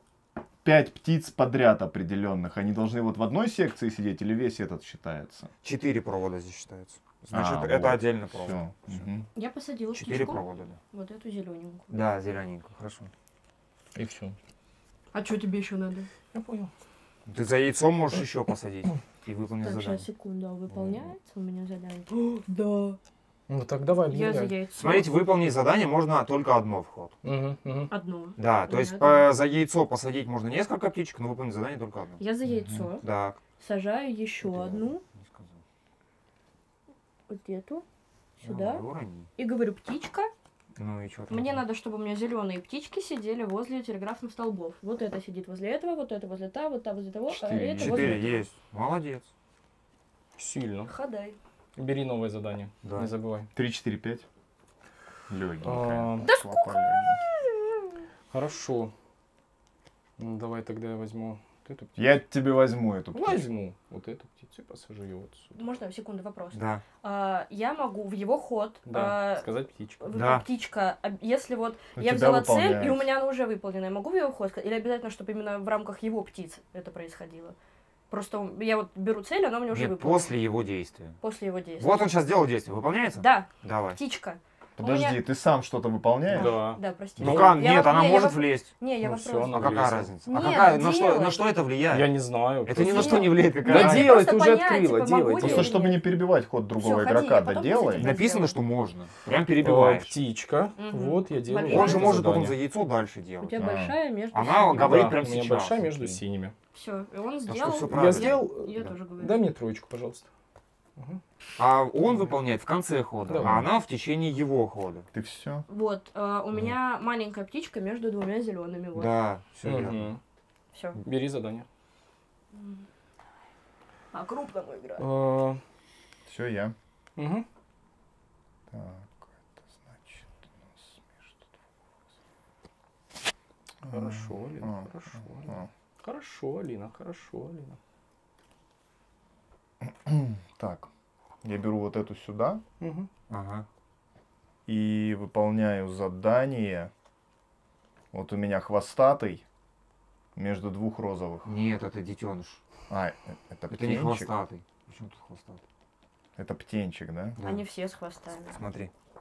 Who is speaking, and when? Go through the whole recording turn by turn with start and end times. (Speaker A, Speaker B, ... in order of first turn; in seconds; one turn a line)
Speaker A: 0.6-5.5
Speaker B: 5.6-9.1
Speaker A: 7.3-9.2
Speaker C: 9.3-11.9
Speaker B: 9.9-10.8
Speaker B: 11.9-13.1
Speaker D: 13.9-14.4
Speaker C: 15.1-16.1
Speaker D: 16.3-16.7
Speaker B: 17.2-20.0
Speaker C: 19.6-23.0
Speaker B: 20.7-21.1
Speaker D: 23.5-24.6
Speaker C: 24.1-25.1
Speaker B: 24.8-27.2
Speaker D: 27.2-27.9
Speaker C: 27.9-29.2
Speaker B: 28.4-32.2
Speaker C: 32.2-33.0
Speaker A: 32.5-32.9
Speaker B: 33.0-33.4
Speaker C: 33.6-35.0
Speaker B: 34.4-35.6
Speaker C: 37.3-37.9
Speaker C: 38.4-38.8
Speaker B: 38.4-39.3
Speaker C: 39.4-40.3
Speaker B: 40.8-41.6
Speaker C: 41.3-48.5
Speaker A: 47.3-48.3
Speaker B: 47.8-49.3
Speaker D: 50.4-50.9
Speaker C: 50.9-51.4
Speaker D: 51.8-53.5
Speaker B: 52.8-53.1
Speaker A: 53.5-54.2
Speaker A: 55.3-57.2
Speaker D: 55.6-56.3
Speaker C: 56.2-57.9
Speaker D: 58.3-58.9
Speaker D: 60.2-62.0
Speaker A: 62.0-63.4
Speaker D: 63.1-65.6
Speaker C: 65.5-69.5
Speaker B: 66.5-66.8
Speaker D: 68.9-70.0
Speaker C: 70.0-77.5
Speaker B: 70.1-70.4
Speaker A: 72.0-73.1
Speaker C: 78.1-80.3
Speaker B: 79.7-81.2
Speaker C: 81.2-82.1
Speaker B: 81.8-84.0
Speaker C: 83.2-85.2
Speaker A: 84.8-86.5
Speaker D: 86.3-87.6
Speaker C: 86.4-91.4
Speaker B: 87.2-88.7
Speaker D: 89.0-90.1
Speaker B: 89.5-94.3
Speaker D: 91.9-95.8
Speaker C: 92.8-96.1
Speaker A: 95.4-98.2
Speaker C: 96.8-98.6
Speaker B: 97.9-100.2
Speaker D: 99.6-102.6
Speaker C: 100.8-102.4
Speaker B: 101.7-103.7
Speaker C: 103.4-105.1
Speaker A: 103.5-103.9
Speaker B: 104.3-106.2
Speaker D: 104.6-106.5
Speaker C: 106.7-109.4
Speaker B: 107.5-108.9
Speaker D: 107.9-110.2
Speaker B: 111.6-115.0
Speaker D: 113.3-113.6
Speaker A: 113.4-113.7
Speaker A: 115.1-115.6
Speaker C: 115.7-119.2
Speaker B: 118.9-120.1
Speaker D: 119.6-120.2
Speaker C: 120.7-121.0
Speaker D: 121.0-121.7
Speaker C: 122.5-122.8
Speaker C: 124.1-125.1
Speaker D: 125.0-125.6
Speaker A: 126.2-126.8
Speaker D: 127.2-127.5
Speaker A: 128.7-129.2
Speaker A: 129.9-131.3
Speaker A: 133.8-134.9
Speaker D: 133.8-137.8
Speaker A: 135.4-135.7
Speaker A: 139.8-140.9
Speaker A: 141.4-142.6
Speaker D: 142.8-143.1
Speaker B: 143.3-143.7
Speaker A: 144.7-146.9
Speaker A: 148.1-149.4
Speaker A: 150.3-151.5
Speaker B: 151.4-152.6
Speaker A: 152.9-154.3
Speaker B: 153.7-155.6
Speaker A: 156.3-157.4
Speaker B: 157.4-157.7
Speaker C: 157.4-158.6
Speaker B: 158.5-158.9